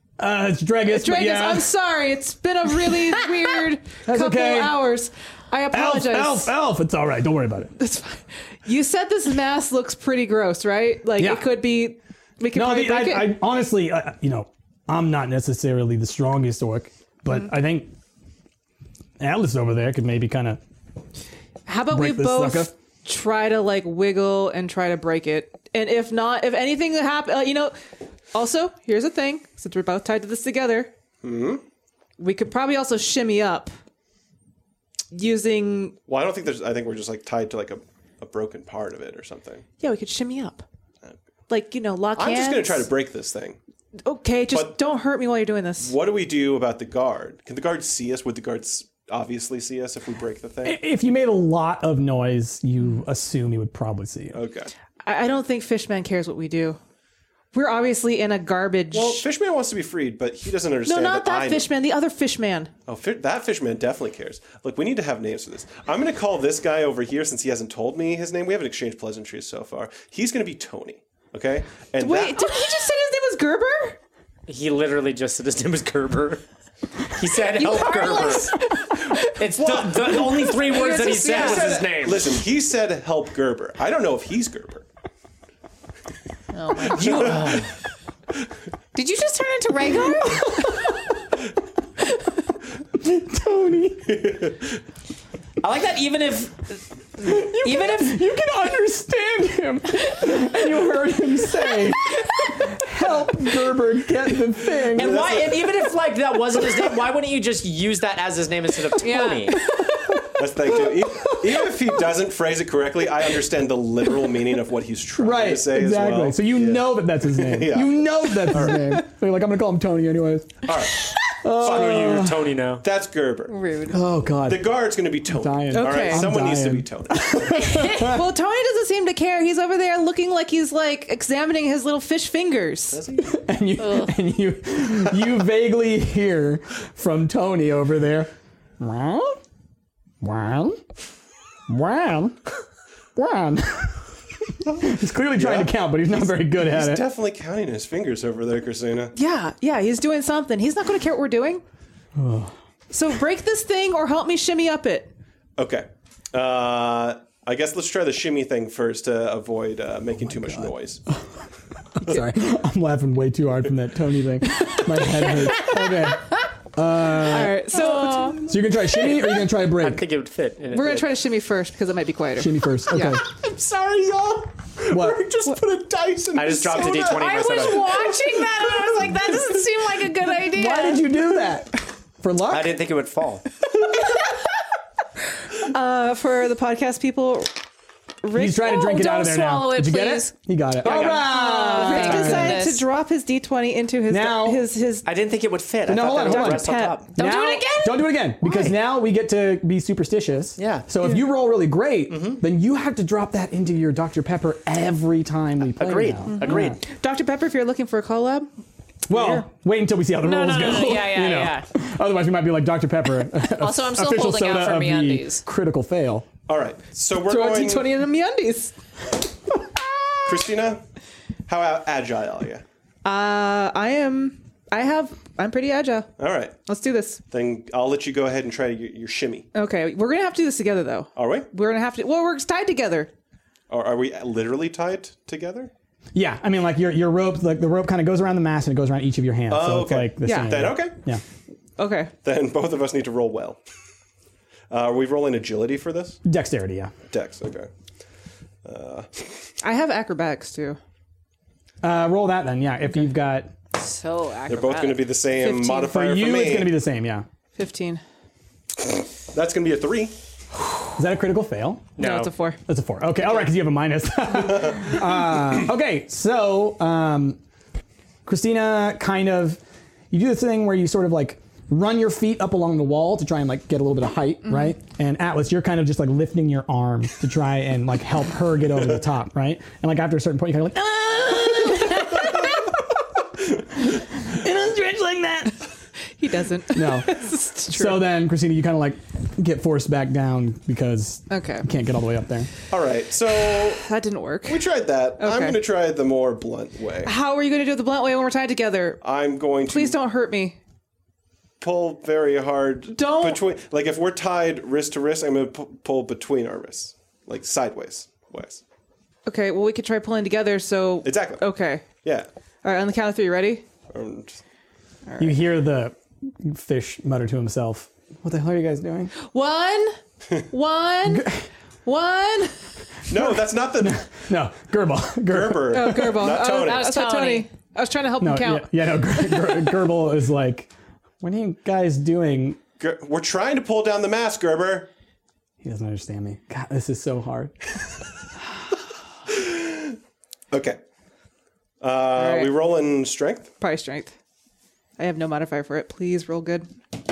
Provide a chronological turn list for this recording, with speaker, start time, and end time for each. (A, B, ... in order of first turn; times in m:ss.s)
0:00.2-0:01.7 A
0:00.9-0:06.5 B
0:04.0-0:04.8 A
0:05.7-0:07.7 A
0:07.8-0:13.4 B
0:11.2-0:11.6 A
0:12.5-0:17.9 A
0:19.2-0:20.6 A
0:21.6-0:27.7 B
0:21.9-0:22.7 A
0:28.3-0:30.9 B
0:31.2-0:31.6 C
0:32.2-0:33.7 B
0:35.1-0:36.0 B
0:36.1-0:39.6 C
0:39.8-0:40.6 B
0:41.5-0:42.9 B
0:42.2-0:43.6 C
0:44.0-0:45.9 B
0:44.5-0:44.8 C
0:45.8-0:50.8 C
0:50.6-0:54.4 A
0:54.3-0:54.7 C
0:55.0-0:56.8 B
0:57.5-0:59.2 B
0:58.9-1:01.7 C
1:00.8-1:02.7 B
1:02.9-1:12.5 C
1:12.0-1:14.0 B
1:14.5-1:16.4 D
1:17.1-1:18.6 D
1:17.3-1:21.9 B
1:19.4-1:22.4 D
1:19.6-1:24.8 C
1:26.5-1:27.5 E
1:26.8-1:27.7 D
1:28.9-1:30.5 E
1:33.0-1:34.3 A
1:34.1-1:34.6 C
1:35.6-1:38.2 D
1:37.2-1:45.2 A
1:44.9-1:45.7 C
1:44.9-1:49.7 D
1:49.0-1:49.5 E
1:50.3-1:58.9 C
1:55.2-2:00.7 A
2:00.6-2:03.6 C
2:01.2-2:02.5 A
2:01.6-2:02.8 D
2:03.5-2:04.0 B
2:03.9-2:08.3 A
2:04.4-2:07.9 C
2:05.7-2:06.3 B
2:07.8-2:13.0 B
2:12.9-2:13.3 C
2:13.2-2:19.4 A
2:13.8-2:14.1 E
2:20.2-2:20.8 A
2:21.7-2:22.6 A
2:23.2-2:24.2 A
2:24.7-2:27.0 A
2:24.7-2:29.1 C
2:29.1-2:31.6 B
2:32.2-2:32.5 A
2:32.9-2:35.1 B
2:35.6-2:41.0 C
2:40.4-2:41.4 A
2:42.0-2:47.6 A
2:47.1-2:48.5 B
2:48.0-2:48.3 E
2:48.4-2:50.0 A
2:49.2-2:51.1 D
2:50.7-2:53.2 B
2:52.4-2:53.2 A
2:53.3-2:57.8 C
2:54.9-2:55.2 A
2:56.3-2:58.0 D
2:57.0-3:01.2 E
3:00.5-3:02.8 A
3:02.5-3:03.4 D
3:05.6-3:07.5 B
3:08.2-3:09.0 B
3:08.3-3:12.6 A
3:08.7-3:10.3 E
3:10.8-3:11.2 D
3:10.8-3:12.8 E
3:11.1-3:15.0 B
3:14.1-3:14.6 A
3:15.0-3:17.1 D
3:15.8-3:26.8 A
3:15.9-3:17.1 B
3:17.1-3:18.1 E
3:20.6-3:20.9 D
3:22.1-3:22.4 D
3:25.8-3:26.8 D
3:26.3-3:28.5 B
3:29.1-3:36.3 A
3:30.2-3:31.6 E
3:33.6-3:35.4 E
3:36.4-3:38.0 C
3:37.2-3:38.7 B
3:40.2-3:40.8 C
3:41.5-3:42.6 C
3:43.0-3:46.1 B
3:46.2-3:46.5 C
3:46.6-3:47.2 B
3:47.3-3:49.5 C
3:49.5-3:53.1 B
3:51.2-3:51.5 C
3:53.7-3:55.7 C
3:56.1-4:01.2 A
3:59.5-4:01.0 C
4:00.2-4:00.6 B
4:01.8-4:02.1 B
4:02.2-4:03.6 C
4:04.7-4:06.2 C
4:06.2-4:06.9 A
4:07.1-4:07.7 C
4:08.6-4:09.4 C
4:09.6-4:10.8 B
4:11.8-4:13.5 A
4:13.7-4:15.1 E
4:14.5-4:16.8 C
4:15.4-4:16.0 B
4:15.9-4:17.2 A
4:17.5-4:18.0 B
4:19.3-4:20.1 C
4:21.0-4:21.9 A
4:22.0-4:22.3 D
4:22.0-4:22.6 B
4:22.7-4:27.4 A
4:28.2-4:43.0 A
4:43.7-4:45.6 A
4:46.2-4:48.0 B
4:46.7-4:52.5 A
4:51.3-4:51.6 B
4:52.7-4:53.8 C
4:53.6-4:54.7 B
4:54.4-4:57.1 C
4:55.2-4:55.6 B
4:57.0-4:59.0 B
4:59.0-5:00.0 C
4:59.7-5:00.6 B
5:01.6-5:08.6 C
5:02.9-5:03.4 B
5:09.2-5:12.0 B
5:11.0-5:11.4 C
5:12.0-5:12.3 C
5:12.6-5:13.6 B
5:13.9-5:14.4 C
5:15.0-5:15.3 B
5:15.2-5:19.1 A
5:19.2-5:20.0 B
5:20.5-5:21.3 B
5:21.1-5:21.4 A
5:21.8-5:22.6 B
5:23.1-5:24.1 C
5:23.1-5:26.3 A
5:25.3-5:26.9 C
5:25.7-5:29.7 B
5:26.4-5:27.5 E
5:28.2-5:30.7 A
5:31.2-5:32.6 A
5:32.8-5:34.9 C
5:35.6-5:37.8 A
5:39.3-5:40.0 C
5:40.5-5:40.8 C
5:41.8-5:43.5 C
5:42.2-5:42.5 B
5:43.6-5:44.1 B
5:45.0-5:46.7 B